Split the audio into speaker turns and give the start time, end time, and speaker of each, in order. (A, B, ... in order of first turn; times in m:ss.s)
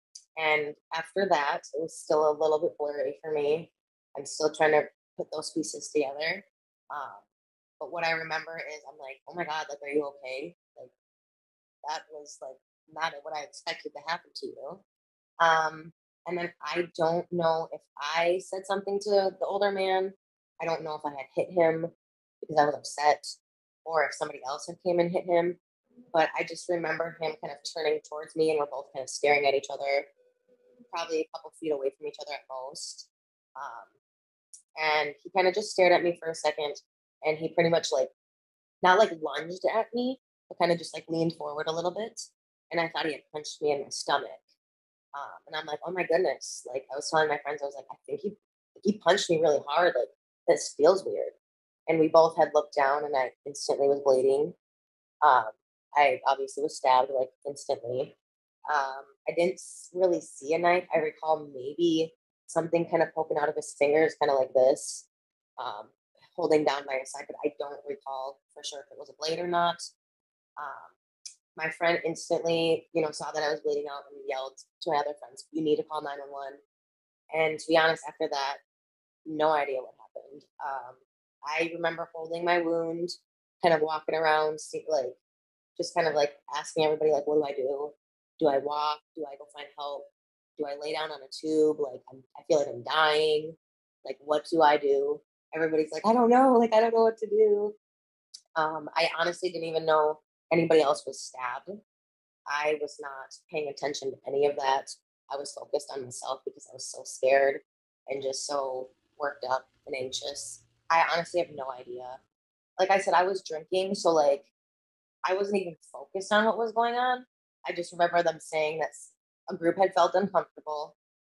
0:00.4-0:07.2 A
0:07.8-0:10.9 A
0:11.8-0:14.8 A
0:15.4-0:23.3 A
0:23.8-0:25.6 A
0:26.1-0:30.1 A
0:30.9-0:33.9 A
0:34.8-0:38.1 A
0:38.8-0:44.4 A
0:45.1-0:51.3 A
0:51.9-0:54.6 A
0:55.2-0:58.1 A
0:58.7-1:05.1 A
1:05.6-1:09.8 A
1:10.6-1:10.9 A
1:11.6-1:16.6 A
1:17.3-1:18.6 A
1:19.3-1:25.2 A
1:25.8-1:30.1 A
1:30.6-1:37.8 A
1:38.6-1:41.8 A
1:42.5-1:52.2 A
1:52.8-1:54.5 A
1:55.2-2:01.0 A